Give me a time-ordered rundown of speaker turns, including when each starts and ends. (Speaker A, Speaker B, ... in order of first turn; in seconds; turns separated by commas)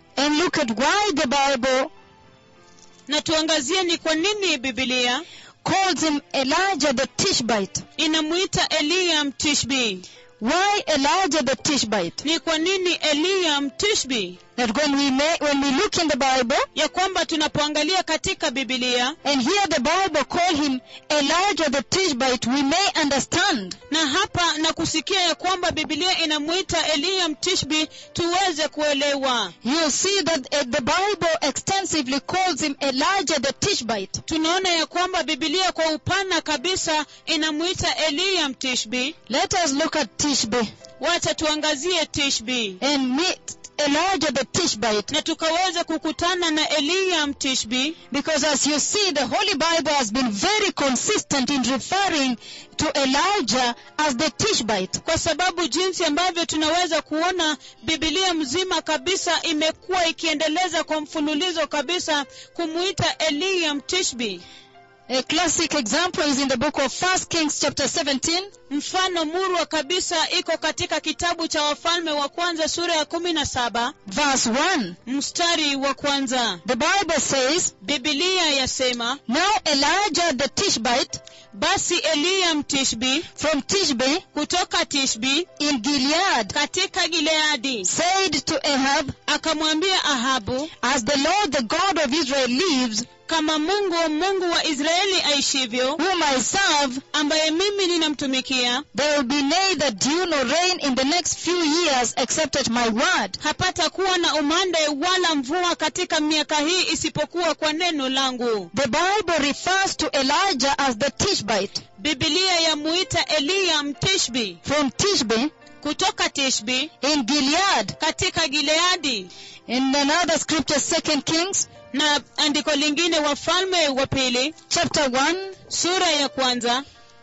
Speaker A: 0.2-1.9, Speaker B: 3.1-5.2, Speaker A: 5.6-7.8, Speaker B: 8.0-10.1, Speaker A: 10.4-12.2, Speaker B: 12.2-14.4, Speaker A: 14.6-16.7, Speaker B: 16.8-19.2, Speaker A: 19.2-23.8, Speaker B: 23.9-29.5, Speaker A: 29.6-34.2, Speaker B: 34.3-39.1, Speaker A: 39.3-40.7, Speaker B: 41.0-42.8, Speaker A: 42.8-45.1, Speaker B: 45.1-48.0, Speaker A: 48.1-55.0, Speaker B: 55.0-64.4, Speaker A: 65.1-68.5, Speaker B: 68.7-74.0, Speaker A: 74.1-75.0, Speaker B: 75.1-76.6, Speaker A: 76.7-77.7, Speaker B: 77.8-79.2, Speaker A: 79.3-81.2, Speaker B: 81.5-83.3, Speaker A: 83.4-84.2, Speaker B: 84.3-85.5, Speaker A: 85.6-86.5, Speaker B: 86.5-87.9, Speaker A: 87.8-89.2, Speaker B: 89.3-90.7, Speaker A: 90.8-93.1, Speaker B: 93.3-96.0, Speaker A: 96.0-97.0, Speaker B: 97.1-98.8, Speaker A: 98.9-103.4, Speaker B: 103.4-108.7, Speaker A: 108.7-111.8, Speaker B: 112.0-114.6, Speaker A: 114.6-115.5, Speaker B: 115.8-116.9, Speaker A: 117.0-118.0, Speaker B: 118.0-119.3, Speaker A: 119.7-121.7, Speaker B: 121.9-124.5, Speaker A: 124.7-125.5, Speaker B: 125.7-126.8